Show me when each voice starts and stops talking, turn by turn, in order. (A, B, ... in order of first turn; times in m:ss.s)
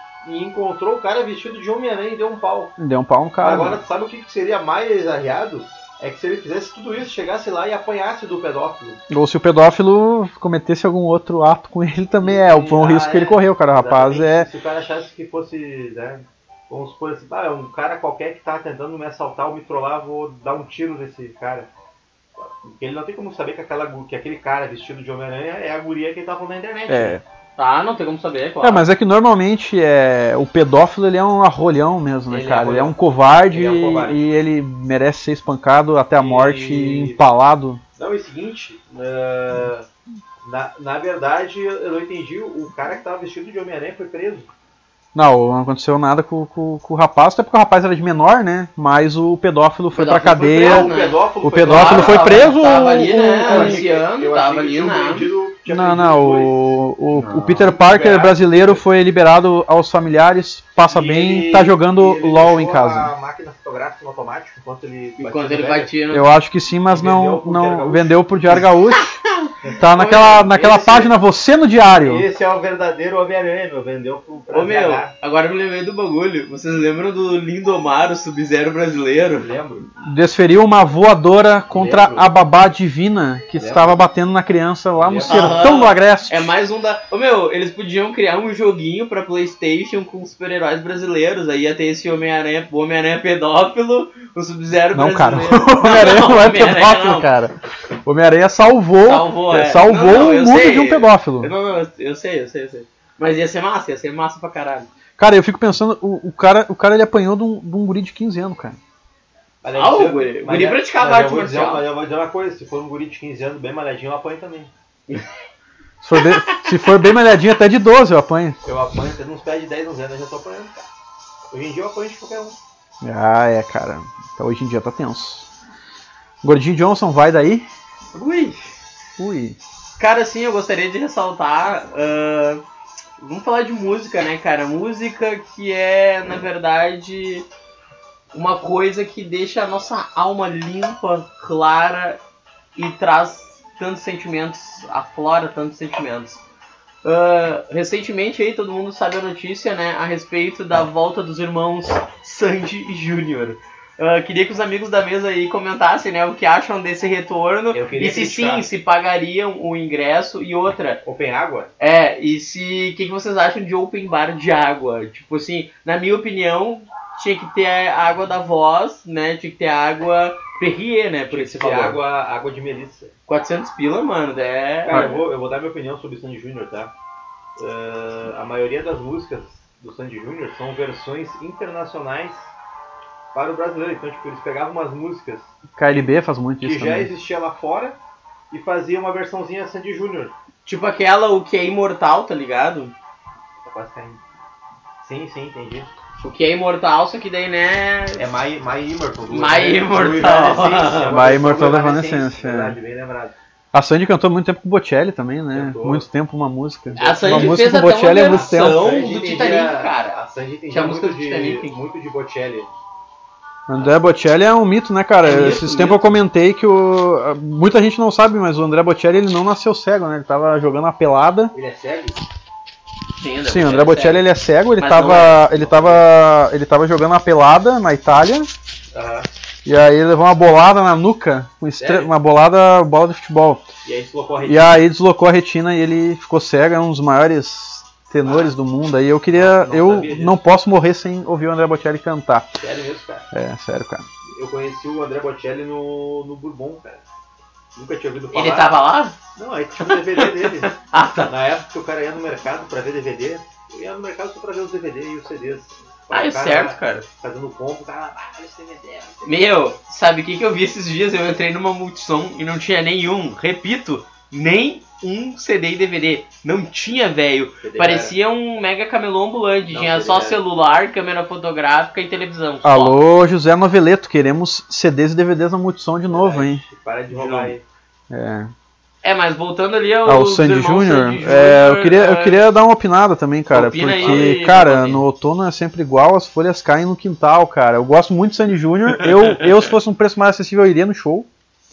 0:00.2-0:02.8 A
0:02.8-0:03.8 B
0:03.4-0:09.0 A
0:09.1-0:14.5 B
0:12.2-0:21.7 A
0:22.4-0:27.2 A
0:26.9-0:27.2 B
0:27.6-0:28.9 C
0:28.6-0:37.8 B
0:32.3-0:33.0 A
0:33.5-0:34.2 A
0:36.2-0:37.2 A
0:38.0-0:39.9 A
0:40.4-0:44.5 A
0:45.2-0:53.8 B
0:49.9-0:55.3 C
0:50.6-0:52.6 A
0:53.4-0:56.7 A
0:55.7-1:03.1 B
0:57.1-0:57.7 C
0:57.6-0:58.8 A
1:00.9-1:05.9 A
1:05.2-1:06.4 C
1:06.1-1:09.2 B
1:06.9-1:08.6 A
1:09.6-1:11.2 A
1:09.8-1:12.2 B
1:11.9-1:15.1 A
1:14.5-1:19.5 C
1:19.4-1:19.9 A
1:20.0-1:26.5 B
1:21.7-1:22.3 A
1:23.6-1:24.0 A
1:25.0-1:25.8 A
1:25.3-1:37.3 C
1:34.9-1:41.5 B
1:39.0-1:44.9 C
1:45.2-1:48.8 B
1:49.6-1:54.7 A
1:49.8-1:51.9 C
1:56.0-1:58.6 B
1:56.2-1:56.9 C
1:58.6-2:00.9 A
2:01.5-2:02.6 A
2:03.0-2:05.5 B
2:06.4-2:07.7 B
2:08.1-2:08.7 C
2:09.2-2:09.6 B
2:10.0-2:12.6 C
2:13.2-2:17.5 C
2:18.3-2:22.2 C
2:22.8-2:26.4 C
2:27.0-2:41.0 C
2:37.7-2:38.6 A
2:41.0-2:41.7 A
2:41.8-2:52.0 C
2:51.3-2:53.1 A
2:53.3-2:55.2 C
2:54.9-2:56.9 A
2:57.6-3:02.5 A
3:03.3-3:05.5 A
3:05.8-3:07.1 B
3:06.6-3:08.0 A
3:08.5-3:10.3 A
3:10.6-3:12.9 C
3:13.6-3:14.2 A
3:15.0-3:15.9 A
3:16.2-3:18.3 C
3:18.2-3:23.4 A
3:19.3-3:21.1 C
3:21.0-3:22.8 B
3:23.7-3:28.8 B
3:25.5-3:26.1 A
3:26.9-3:32.7 A
3:27.0-3:30.2 C
3:30.7-3:31.7 C
3:33.7-3:41.5 B
3:35.2-3:36.1 C
3:41.5-3:42.2 A
3:43.2-3:44.3 C
3:43.5-3:48.5 B
3:44.8-3:45.4 C
3:45.1-3:46.1 A
3:48.9-3:49.3 A
3:49.6-3:53.7 B
3:51.8-3:52.1 A
3:53.8-3:54.8 A
3:54.4-4:02.5 B
3:58.2-3:58.5 A
3:59.3-4:00.4 A
4:02.6-4:03.3 A
4:03.3-4:04.1 B
4:04.4-4:07.0 A
4:07.8-4:08.8 A
4:08.3-4:09.2 C
4:09.4-4:10.8 A
4:09.8-4:11.3 C
4:11.3-4:19.4 A
4:16.1-4:17.1 C
4:19.2-4:33.0 C
4:27.6-4:28.2 A
4:29.7-4:30.4 A
4:32.6-4:36.6 B
4:36.1-4:37.6 A
4:37.1-4:37.6 C
4:38.1-4:38.5 B
4:39.0-4:42.4 C
4:40.0-4:51.3 B
4:43.5-4:45.0 C
4:44.0-4:44.4 A